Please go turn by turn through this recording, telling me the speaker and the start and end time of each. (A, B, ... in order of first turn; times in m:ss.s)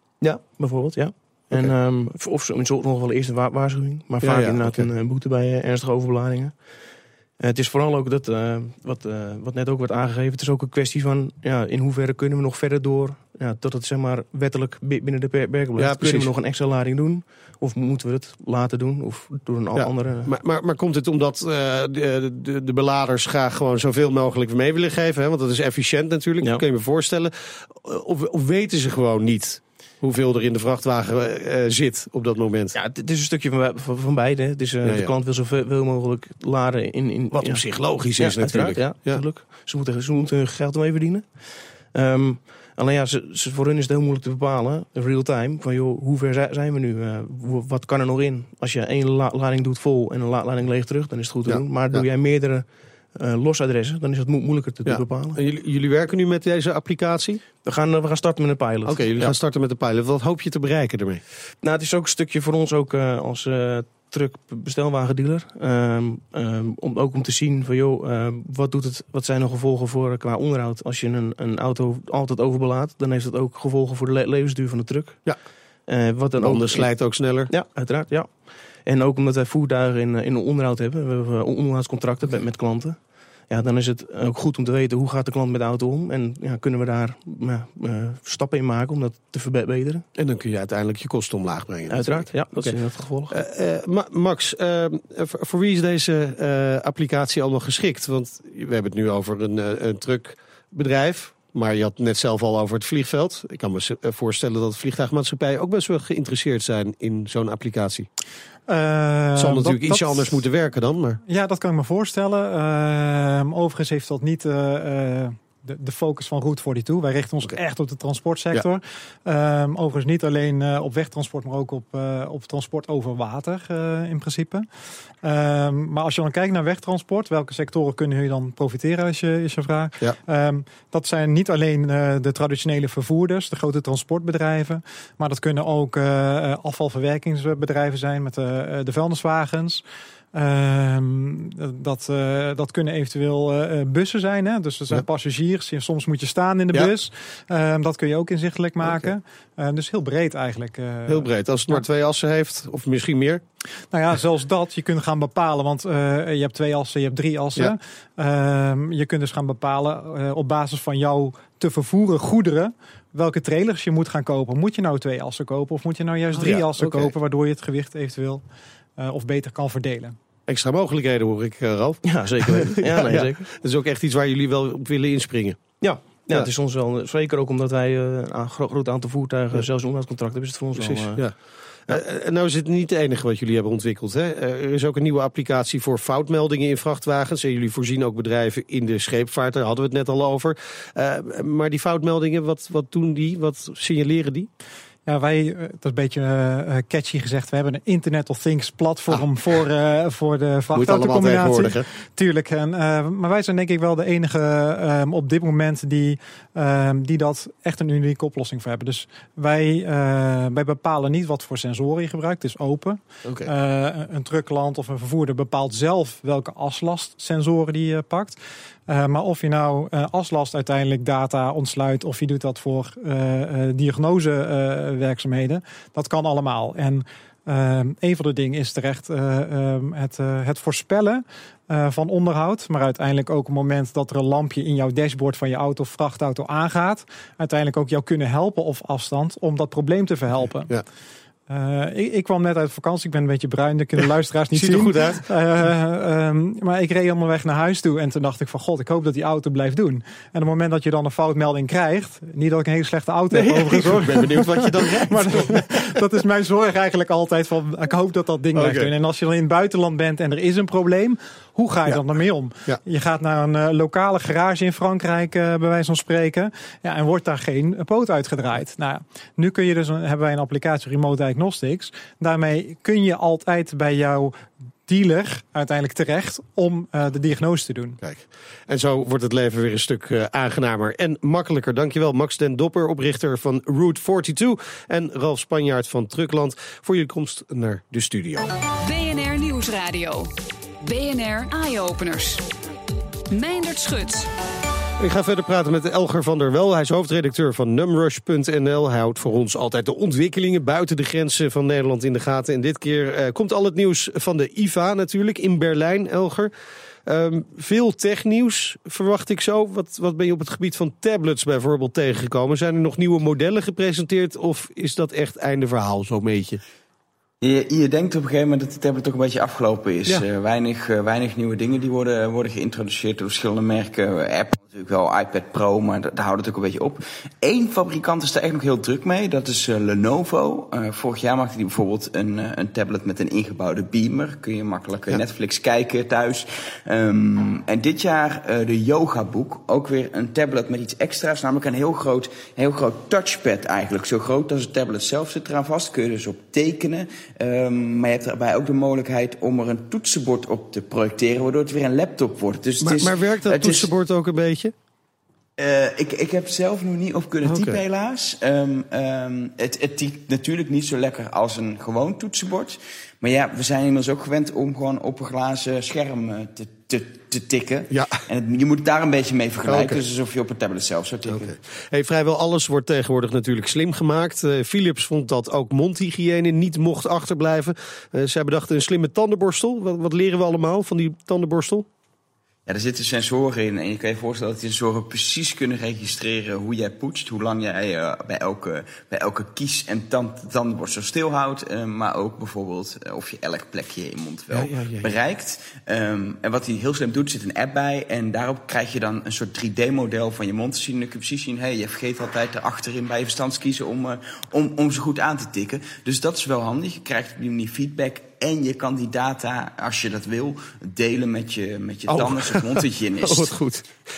0:00.2-0:20.3 A
0:04.2-0:04.9 B
0:15.8-0:16.3 B
0:19.8-0:32.8 B
0:32.7-0:55.4 A
0:34.8-0:35.1 B
0:37.3-0:39.2 B
0:51.5-0:52.0 B
0:54.9-0:57.5 B
0:57.6-0:59.4 A
0:58.9-1:01.2 B
1:01.6-1:30.0 A
1:16.4-1:17.5 B
1:30.2-1:48.1 B
1:31.9-1:33.3 A
1:48.7-1:50.4 C
1:49.4-1:51.2 B
1:51.3-2:04.7 C
2:05.2-2:31.8 C
2:28.8-2:29.1 B
2:31.1-2:33.4 B
2:33.9-2:48.4 C
2:46.4-2:47.1 B
2:49.0-2:50.2 C
2:50.5-2:55.8 B
2:52.0-2:53.5 A
2:55.8-3:01.3 A
3:00.8-3:14.5 B
3:15.1-4:00.7 C
3:20.7-3:21.9 B
3:33.2-3:33.5 B
4:01.5-4:38.0 C
4:04.5-4:05.2 B
4:13.3-4:15.8 B
4:18.6-4:18.9 B
4:38.0-4:48.5 B
4:48.8-4:52.5 D
4:53.3-4:54.3 D
4:55.0-5:06.5 B
5:07.1-5:16.6 B
5:17.4-5:53.9 E
5:52.8-5:54.7 B
5:55.6-6:11.6 E
5:57.4-5:57.8 B
6:07.9-6:08.2 B
6:09.7-6:10.0 B
6:11.3-6:21.9 B
6:22.7-6:53.5 E
6:34.5-6:35.1 B
6:52.1-6:53.9 B